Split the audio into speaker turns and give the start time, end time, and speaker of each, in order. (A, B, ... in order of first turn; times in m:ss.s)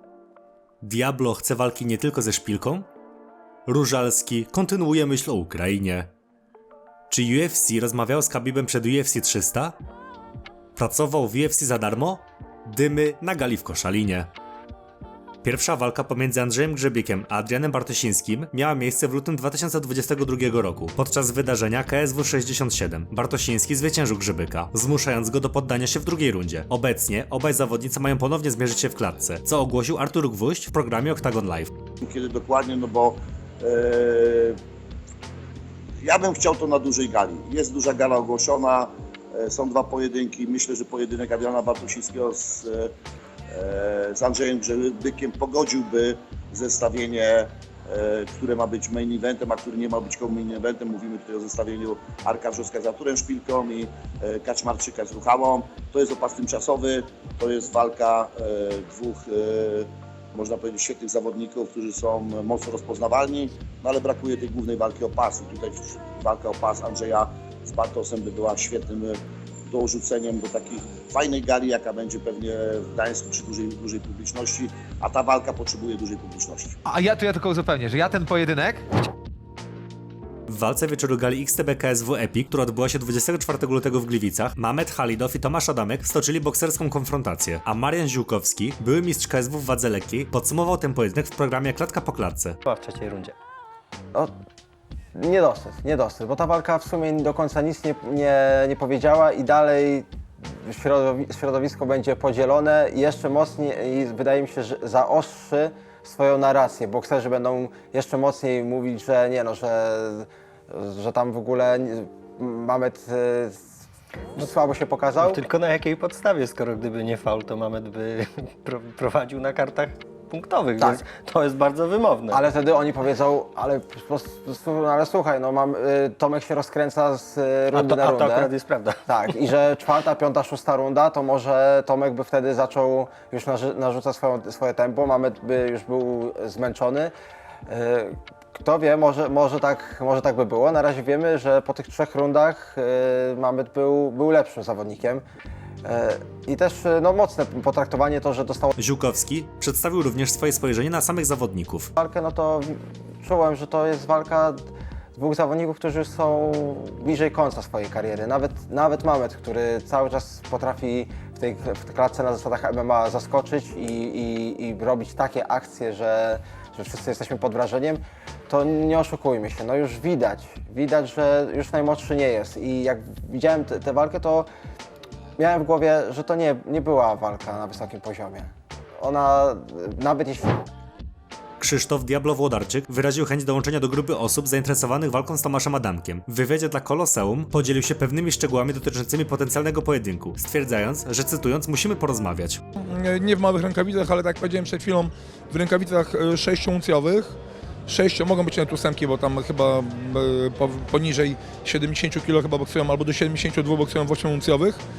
0:00.8-0:02.9 A
0:03.7-0:06.1 A
0:07.1-0:09.8 A
0:10.8-0:14.3 A
0:15.4-0:31.7 A
0:32.0-0:34.6 B
0:36.0-0:42.9 B
0:43.5-1:16.8 B
1:16.8-1:18.8 C
1:20.5-1:32.6 A
1:32.7-1:33.3 D
1:35.2-1:40.1 E
1:40.6-1:53.6 E
1:54.4-1:55.4 E
1:55.2-2:02.4 D
2:02.3-2:08.5 E
2:07.7-2:09.0 D
2:09.1-2:17.1 E
2:17.7-2:25.2 E
2:25.8-2:28.7 E
2:28.8-2:31.9 A
2:32.0-2:54.5 E
2:55.4-3:00.5 E
3:01.6-3:12.6 A
3:13.0-3:17.4 F
3:17.9-3:24.8 F